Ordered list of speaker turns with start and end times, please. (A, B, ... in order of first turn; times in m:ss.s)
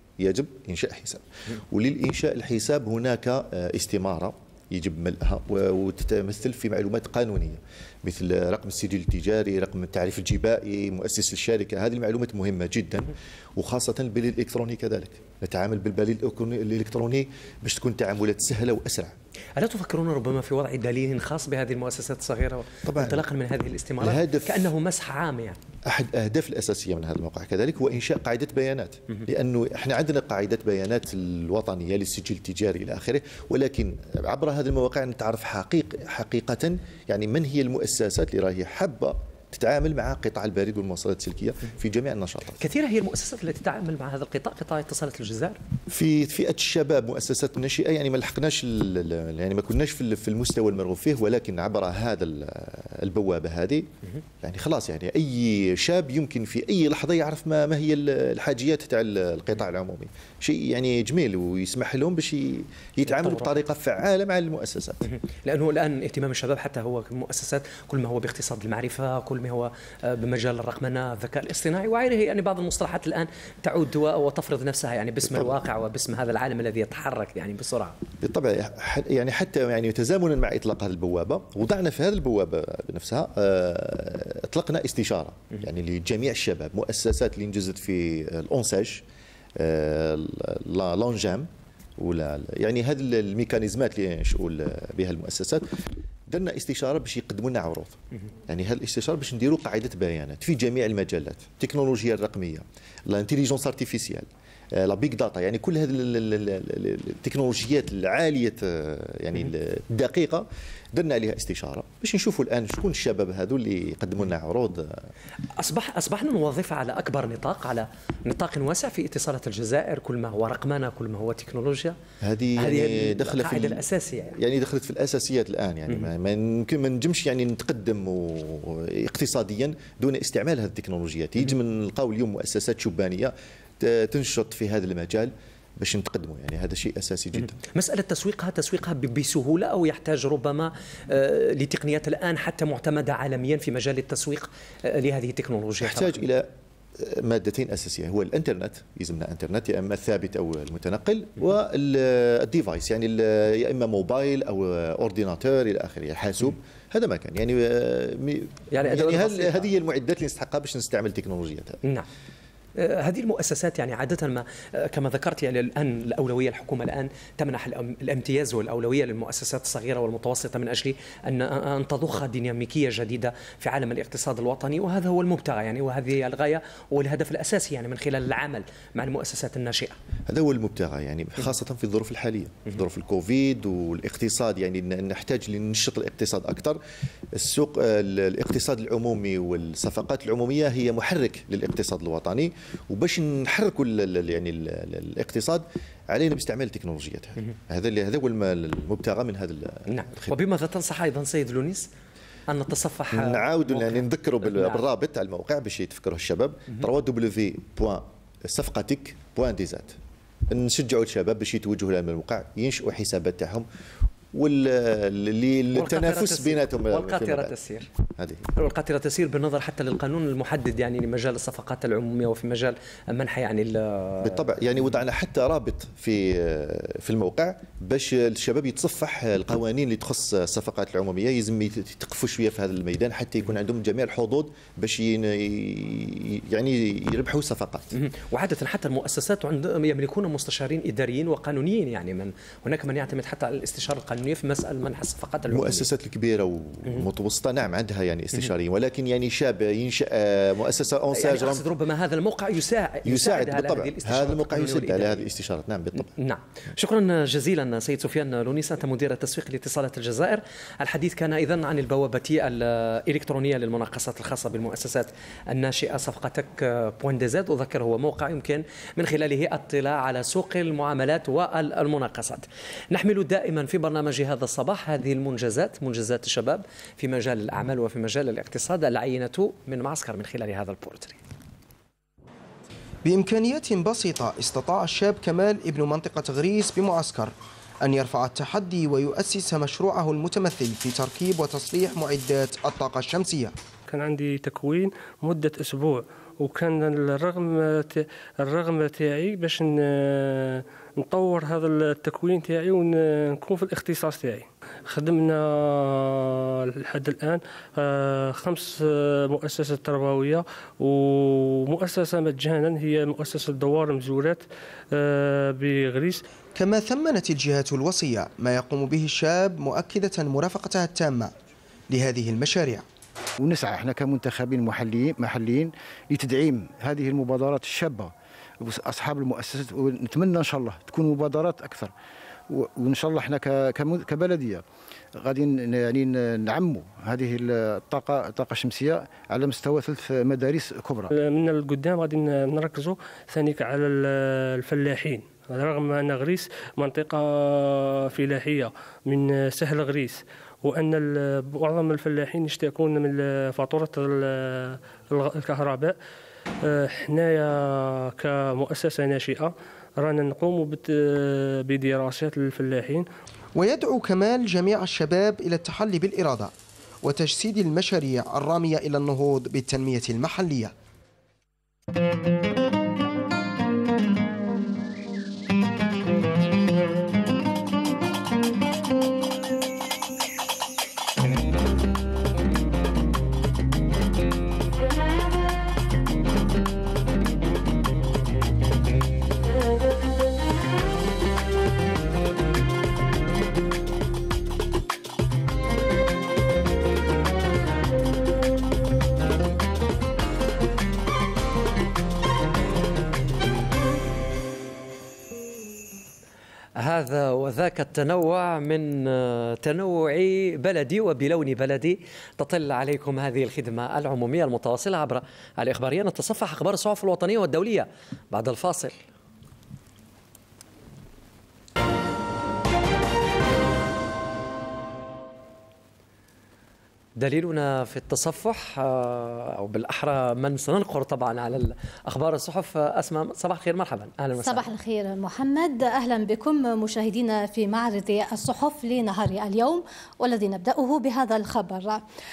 0:00.2-0:19.1 A
0:19.6-0:25.6 B
0:22.9-0:23.2 A
0:24.0-0:24.7 A
0:25.9-0:42.6 A
0:42.6-0:45.6 B
0:45.9-0:53.9 A
0:54.4-1:05.0 A
1:03.0-1:03.5 B
1:05.1-1:17.9 B
1:18.2-1:29.0 A
1:29.6-1:35.6 A
1:36.3-1:54.9 A
1:55.6-2:02.0 B
2:02.2-2:17.6 A
2:02.6-2:04.4 B
2:17.4-2:26.3 B
2:25.8-2:26.5 A
2:27.0-2:41.8 A
2:38.7-2:39.7 B
2:42.8-3:00.0 B
3:00.3-3:06.8 A
3:07.4-3:20.4 A
3:19.9-3:21.9 B
3:22.5-3:24.8 B
3:23.1-3:30.0 A
3:30.5-3:33.6 A
3:34.3-3:37.5 A
3:35.7-3:37.9 B
3:38.2-3:38.4 A
3:38.5-3:44.5 B
3:44.2-3:57.9 A
3:57.9-4:05.9 B
4:05.5-4:11.6 A
4:11.1-4:15.2 B
4:13.0-4:16.1 A
4:16.0-4:41.2 B
4:43.0-4:53.5 C
4:53.9-5:16.2 D
5:16.6-5:21.3 C
5:21.9-5:22.8 C
5:23.4-5:31.9 E
5:32.5-5:34.6 E
5:35.2-5:41.1 E
5:41.1-5:55.9 D
5:56.7-6:03.0 D
6:03.6-6:06.5 C
6:07.0-6:10.7 C
6:46.8-6:59.0 B
7:07.2-7:14.7 B
7:14.4-7:22.0 F